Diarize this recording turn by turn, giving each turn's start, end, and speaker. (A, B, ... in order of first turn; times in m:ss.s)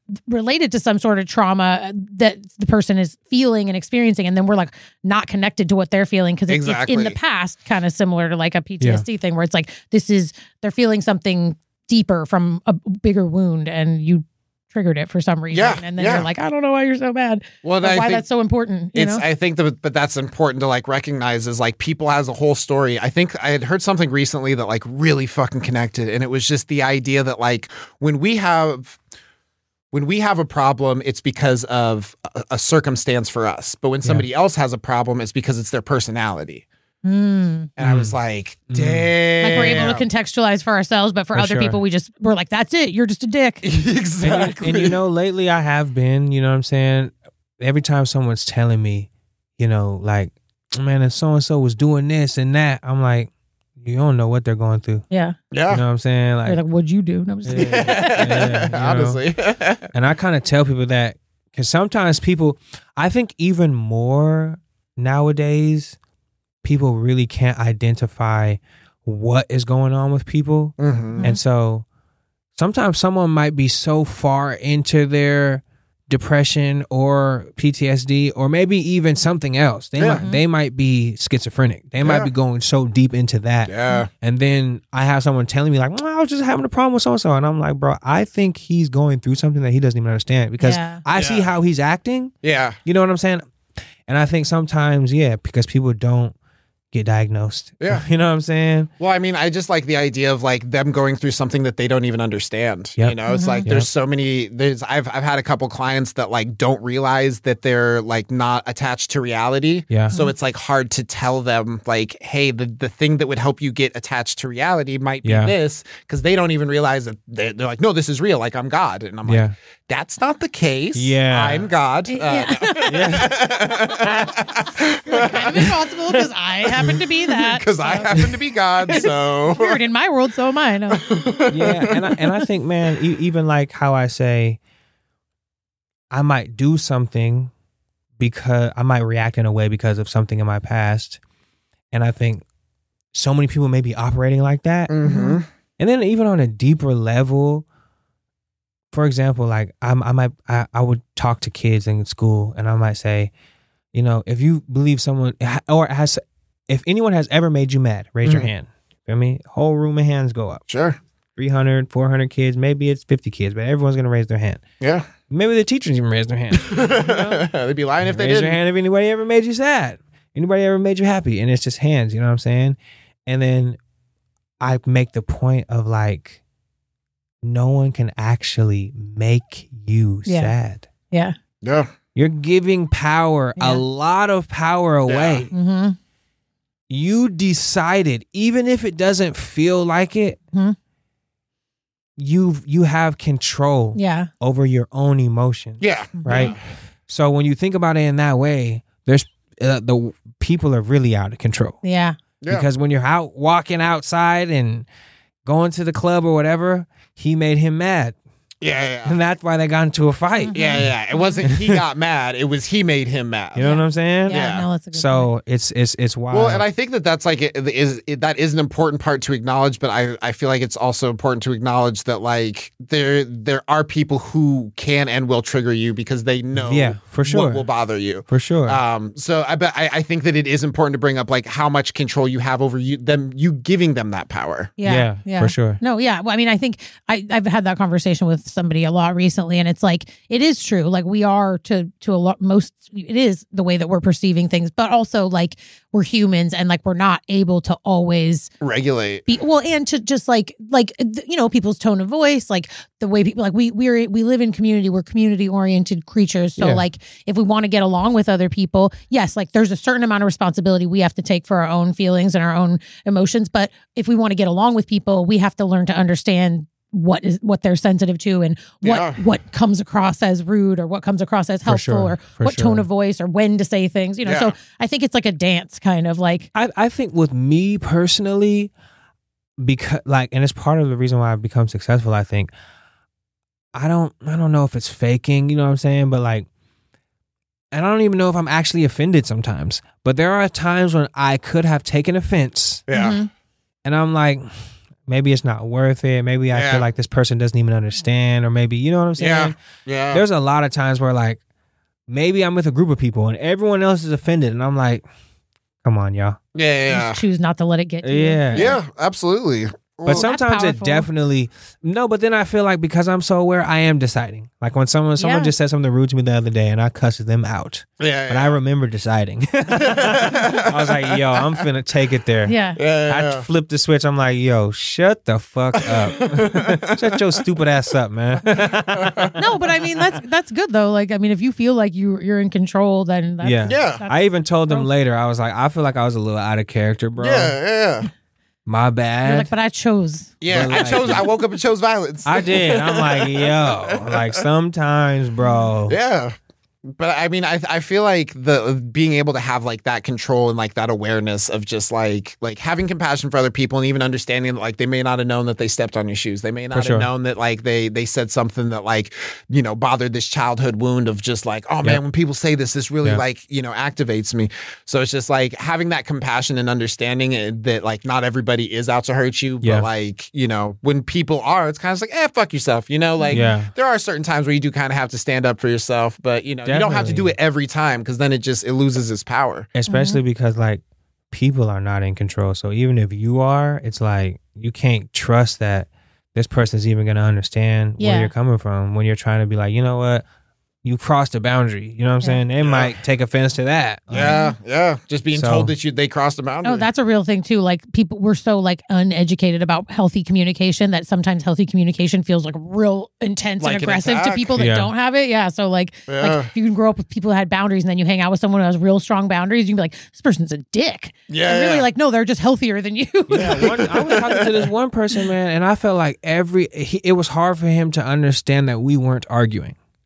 0:00.3-0:19.2 A
0:06.5-0:07.2 B
0:15.5-0:16.3 B
0:17.6-0:18.2 B
0:18.9-0:29.0 B
0:29.9-0:36.6 B
0:37.0-0:37.7 A
0:37.8-0:40.0 B
0:37.8-0:38.2 C
0:38.7-0:39.9 C
0:39.4-0:43.6 A
0:41.3-0:41.8 C
0:43.6-0:45.0 B
0:44.2-0:53.3 C
0:53.8-0:55.0 C
0:55.5-0:55.8 B
0:55.7-0:56.6 C
0:56.4-0:58.7 A
0:57.4-0:59.2 C
0:57.5-0:59.9 B
0:59.9-1:06.0 C
1:06.6-1:11.8 C
1:10.8-1:11.3 B
1:11.1-1:11.4 A
1:12.6-1:32.3 C
1:20.0-1:20.2 B
1:20.1-1:20.4 A
1:22.0-1:22.3 B
1:23.6-1:24.1 B
1:30.6-1:31.0 A
1:31.2-1:31.5 B
1:32.4-1:32.8 B
1:32.8-1:33.4 C
1:34.1-1:36.3 C
1:36.9-1:38.9 C
1:37.8-1:38.0 B
1:39.0-2:05.7 B
1:43.0-1:43.9 C
1:43.3-1:43.7 A
1:55.2-1:55.5 C
1:59.2-1:59.5 C
2:00.9-2:01.7 C
2:02.1-2:03.2 A
2:02.9-2:03.4 C
2:04.0-2:08.2 A
2:06.8-2:09.8 B
2:08.8-2:11.1 A
2:10.9-2:12.0 B
2:11.5-2:14.6 C
2:16.1-2:17.5 C
2:18.2-2:21.2 C
2:21.9-2:22.4 C
2:23.1-2:25.0 C
2:24.9-2:25.4 B
2:25.0-2:25.4 A
2:25.8-2:27.6 C
2:28.9-2:33.3 C
2:33.9-2:40.6 C
2:38.2-2:38.5 B
2:40.7-2:41.0 B
2:41.4-2:44.6 C
2:44.8-2:45.1 B
2:45.3-2:47.4 C
2:46.6-2:48.6 B
2:48.0-2:53.8 C
2:54.6-2:56.4 C
2:57.4-3:00.9 C
3:00.2-3:00.5 A
3:01.1-3:01.4 A
3:01.6-3:01.9 B
3:02.2-3:05.5 C
3:03.6-3:03.8 A
3:05.0-3:05.5 B
3:05.5-3:06.0 A
3:06.9-3:10.4 C
3:12.2-3:21.8 C
3:13.9-3:14.3 A
3:15.8-3:16.6 B
3:16.2-3:16.5 A
3:21.8-3:22.2 A
3:22.5-3:24.8 C
3:25.4-3:28.2 C
3:28.6-3:29.2 B
3:29.0-3:30.9 C
3:30.4-3:31.5 A
3:30.5-3:33.6 B
3:31.4-3:31.8 C
3:33.5-3:36.6 C
3:33.6-3:35.3 A
3:34.3-3:34.7 B
3:36.3-3:54.7 B
3:46.6-3:47.6 C
3:48.3-3:48.8 C
3:54.8-4:08.5 A
3:54.8-3:55.8 C
4:08.6-4:09.3 B
4:09.3-4:36.5 A
4:16.6-4:16.8 C
4:28.8-4:29.2 B
4:31.7-4:32.8 C
4:34.2-4:34.5 B
4:36.5-4:38.7 C
4:39.6-4:42.5 C
4:43.7-4:46.4 C
4:47.7-4:52.8 C
4:52.9-4:53.2 B
4:52.9-4:53.3 A
4:53.8-4:54.5 C
4:55.0-4:59.6 C
4:56.5-4:56.8 B
4:59.2-5:00.2 B
5:00.1-5:01.4 C
5:02.1-5:05.0 C
5:05.8-5:06.4 C
5:06.5-5:07.2 B
5:06.9-5:08.8 A
5:08.0-5:08.7 C
5:08.5-5:10.3 B
5:10.0-5:29.4 C
5:10.1-5:11.1 A
5:15.2-5:15.5 A
5:18.0-5:18.6 B
5:19.8-5:21.6 B
5:22.4-5:22.8 A
5:22.8-5:23.4 B
5:25.7-5:27.0 B
5:28.5-5:29.4 B
5:29.4-5:34.9 A
5:33.4-5:37.5 C
5:33.6-5:34.0 B
5:37.2-5:38.1 B
5:38.6-5:39.5 C
5:39.2-5:40.3 A
5:40.4-5:44.4 B
5:40.4-5:41.3 C
5:42.2-5:46.0 C
5:45.4-5:45.7 A
5:45.9-5:46.3 B
5:46.9-6:19.7 B
5:56.7-5:57.1 C
6:09.6-6:09.9 C
6:13.2-6:13.5 A
6:13.3-6:13.7 C
6:16.6-6:17.3 C
6:19.7-6:30.2 C
6:19.9-6:20.2 A
6:28.0-6:28.3 A
6:30.8-6:34.4 C
6:32.6-6:33.0 B
6:34.1-6:36.9 B
6:34.2-6:34.6 A
6:35.3-6:35.7 C
6:36.6-6:54.1 A
6:43.6-6:44.6 B
6:44.6-6:44.9 C
6:46.1-6:46.5 B
6:51.3-6:51.8 B
6:53.3-6:59.8 C
6:53.6-6:54.7 B